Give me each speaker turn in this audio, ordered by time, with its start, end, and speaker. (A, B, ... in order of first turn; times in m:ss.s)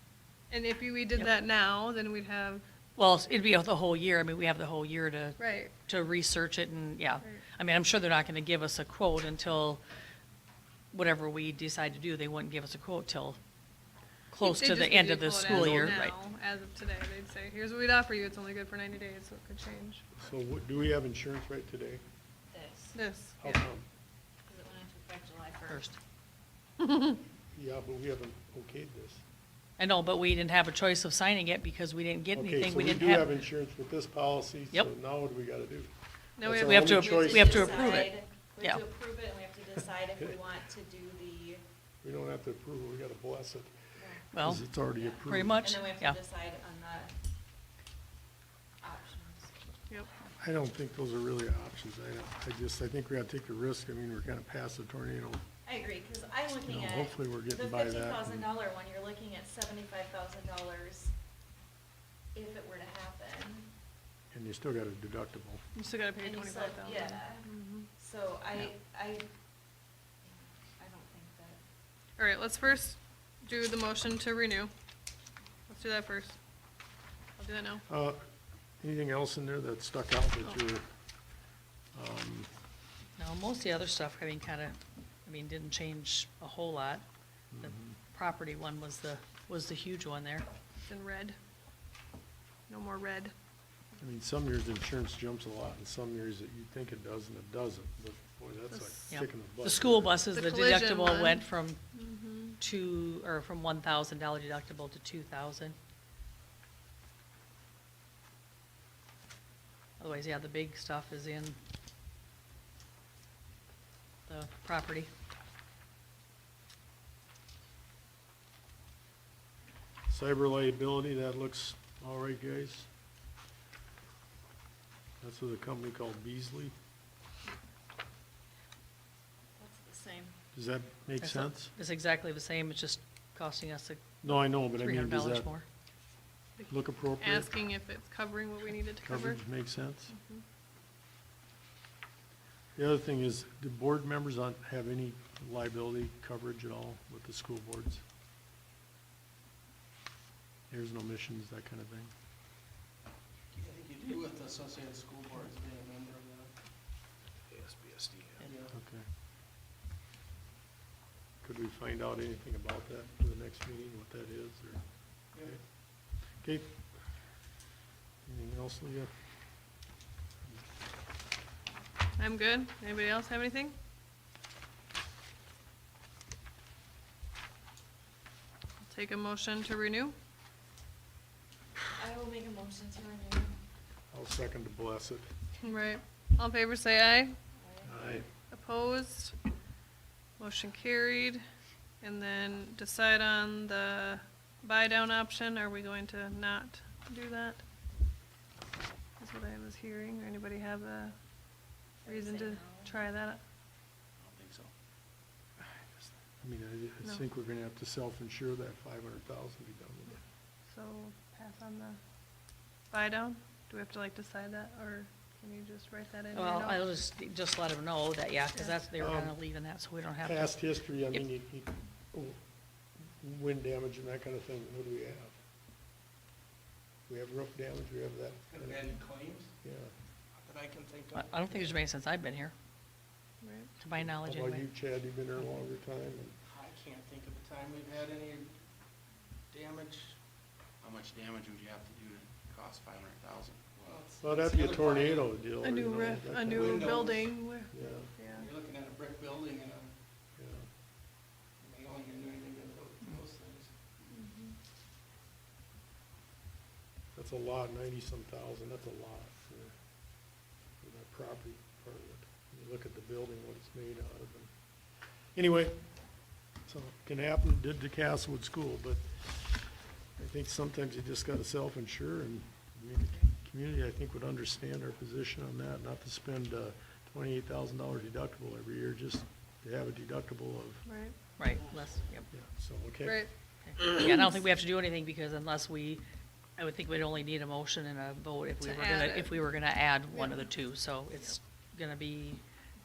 0:00.5-0:02.6 A
0:03.0-0:09.8 B
0:05.4-0:05.7 A
0:10.9-0:13.4 B
0:14.3-0:16.1 B
0:14.4-0:20.0 A
0:15.5-0:16.0 C
0:20.2-0:22.0 C
0:22.5-0:23.0 D
0:22.9-0:23.5 A
0:23.4-0:23.8 C
0:24.4-0:25.9 D
0:25.7-0:26.0 B
0:27.5-0:29.2 C
0:29.8-0:33.4 B
0:32.3-0:35.9 C
0:36.4-0:37.0 A
0:36.4-0:38.0 C
0:36.5-0:38.8 B
0:36.8-0:41.6 D
0:42.0-0:43.7 C
0:44.0-0:47.1 D
0:44.3-0:44.6 B
0:44.3-0:45.7 C
0:45.2-0:46.2 B
0:48.8-0:49.5 D
0:50.4-0:55.4 C
0:55.6-1:01.1 D
0:56.6-0:58.5 C
1:02.3-1:03.7 D
1:04.3-1:05.6 C
1:05.8-1:07.9 A
1:06.2-1:09.3 D
1:10.3-1:11.6 D
1:12.2-1:14.7 A
1:15.7-1:16.4 A
1:17.4-1:17.8 A
1:17.9-1:18.2 C
1:18.8-1:20.9 C
1:21.9-1:22.5 C
1:23.2-1:27.0 B
1:27.5-1:28.0 C
1:27.6-1:30.4 B
1:30.9-1:31.4 A
1:32.7-1:33.3 A
1:34.0-1:40.1 C
1:39.1-1:41.8 B
1:40.3-1:42.6 A
1:42.6-1:45.7 B
1:50.0-1:51.6 B
1:54.3-1:55.1 B
2:00.1-2:02.9 C
2:05.2-2:06.7 C
2:09.6-2:10.4 D
2:10.5-2:11.7 C
2:11.2-2:15.6 B
2:14.2-2:15.5 C
2:16.6-2:19.4 A
2:16.7-2:17.5 C
2:19.0-2:20.1 C
2:20.1-2:20.4 A
2:22.8-2:28.0 C
2:30.7-2:32.1 C
2:33.5-2:36.5 E
2:37.5-2:38.4 F
2:38.4-2:38.7 E
2:38.7-2:39.1 C
2:41.4-2:44.8 C
2:46.4-2:46.8 C
2:48.2-2:49.1 C
2:52.2-2:53.7 A
2:58.8-3:00.1 A
3:02.0-3:03.5 D
3:04.1-3:05.3 C
3:05.6-3:07.4 A
3:07.6-3:08.0 D
3:07.8-3:08.2 C
3:08.5-3:09.4 A
3:10.4-3:11.4 A
3:12.0-3:17.6 A
3:19.2-3:21.2 A
3:22.0-3:23.4 A
3:22.0-3:23.0 D
3:24.2-3:24.7 F
3:25.6-3:30.2 C
3:30.7-3:32.0 A
3:32.9-3:36.8 A
3:36.3-3:41.2 B
3:39.0-3:39.4 C
3:40.2-3:42.4 C
3:43.2-3:45.4 C
3:47.1-3:48.9 C
3:48.5-3:49.5 E
3:49.6-3:49.9 C
3:50.3-3:51.8 E
3:51.1-3:52.5 B
3:53.4-3:53.7 A
3:53.8-3:54.7 B
3:54.0-3:56.4 C
3:56.4-3:58.6 E
3:59.5-4:00.2 E
4:00.8-4:04.0 F
4:03.8-4:05.3 E
4:04.2-4:07.1 C
4:05.6-4:08.5 A
4:06.4-4:07.4 E
4:07.7-4:08.1 C
4:08.2-4:09.9 E
4:10.4-4:10.7 C
4:11.6-4:13.7 E
4:17.1-4:19.7 C
4:20.8-4:24.5 C
4:25.3-4:25.8 C
4:26.6-4:40.8 C
4:40.8-4:41.2 A
4:41.4-4:42.3 B
4:42.3-4:43.2 C
4:43.6-4:46.0 B
4:46.6-4:52.4 B
4:48.6-4:49.5 A
4:50.1-4:50.5 A